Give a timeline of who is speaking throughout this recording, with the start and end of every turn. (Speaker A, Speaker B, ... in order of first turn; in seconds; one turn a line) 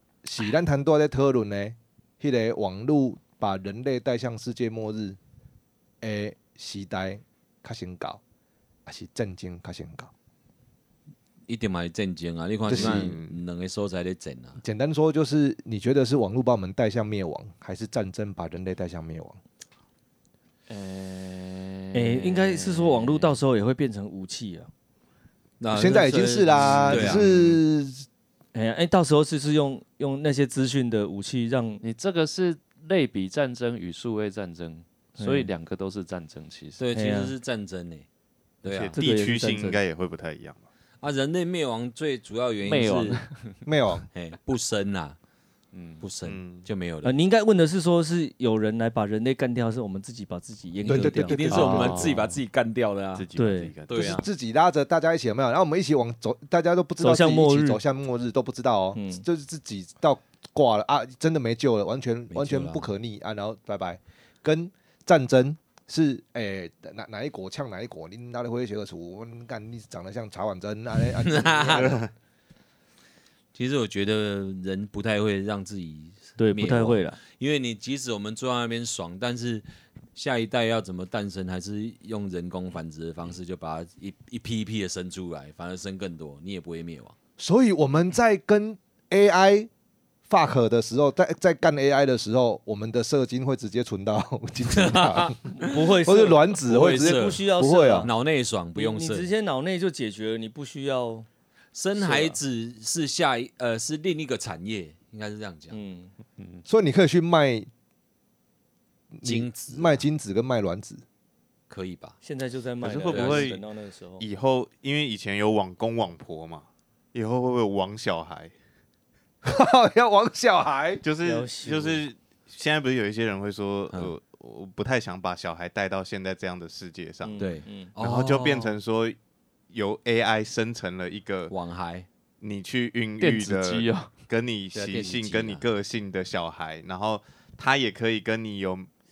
Speaker A: 0.2-5.2
Speaker A: 6.0-8.2
Speaker A: 8.9-10.1
Speaker B: 11.5-14.6
Speaker A: 12.7-13.2
Speaker C: 12.7-13.4
Speaker A: 14.6-19.4
Speaker D: 20.7-23.4
Speaker E: 21.9-24.7
Speaker B: 25.6-27.6
Speaker A: 25.7-28.1
Speaker E: 28.5-31.8
Speaker D: 31.8-36.8
Speaker E: 35.2-35.5
Speaker B: 36.8-38.1
Speaker E: 36.9-37.3
Speaker B: 38.6-39.0
Speaker C: 38.6-40.6
Speaker E: 39.0-39.8
Speaker B: 41.0-43.2
Speaker D: 42.6-43.5
Speaker A: 43.7-44.0
Speaker B: 44.1-45.2
Speaker D: 45.7-46.0
Speaker B: 46.0-47.1
Speaker C: 46.2-46.7
Speaker E: 47.0-52.1
Speaker A: 50.9-52.2
Speaker B: 50.9-53.3
Speaker C: 53.2-54.2
Speaker E: 53.3-53.7
Speaker B: 53.9-54.2
Speaker A: 53.9-72.0
Speaker E: 57.0-57.8
Speaker E: 59.0-59.2
Speaker B: 62.3-62.9
Speaker B: 71.1-72.0
Speaker C: 71.8-72.1
Speaker B: 73.5-79.6
Speaker E: 76.4-77.2
Speaker B: 80.2-87.1
Speaker A: 87.4-89.7
Speaker A: 90.3-98.1
Speaker B: 94.7-95.5
Speaker E: 95.5-98.1
Speaker B: 96.7-97.5
Speaker B: 98.0-99.3
Speaker E: 98.8-101.3
Speaker B: 101.7-105.8
Speaker E: 102.0-102.4
Speaker E: 105.7-106.1
Speaker A: 106.7-107.7
Speaker A: 109.2-111.0
Speaker B: 109.2-110.0
Speaker B: 111.7-112.2
Speaker E: 112.2-114.2
Speaker C: 112.8-113.6
Speaker B: 113.1-113.5
Speaker C: 114.2-118.5
Speaker A: 119.4-121.0
Speaker C: 121.0-127.5
Speaker E: 121.2-122.0
Speaker E: 127.2-127.9
Speaker B: 127.4-128.8
Speaker C: 128.0-129.2
Speaker C: 129.7-131.5
Speaker B: 131.5-132.1
Speaker C: 132.4-138.9
Speaker D: 133.2-134.1
Speaker B: 134.7-135.7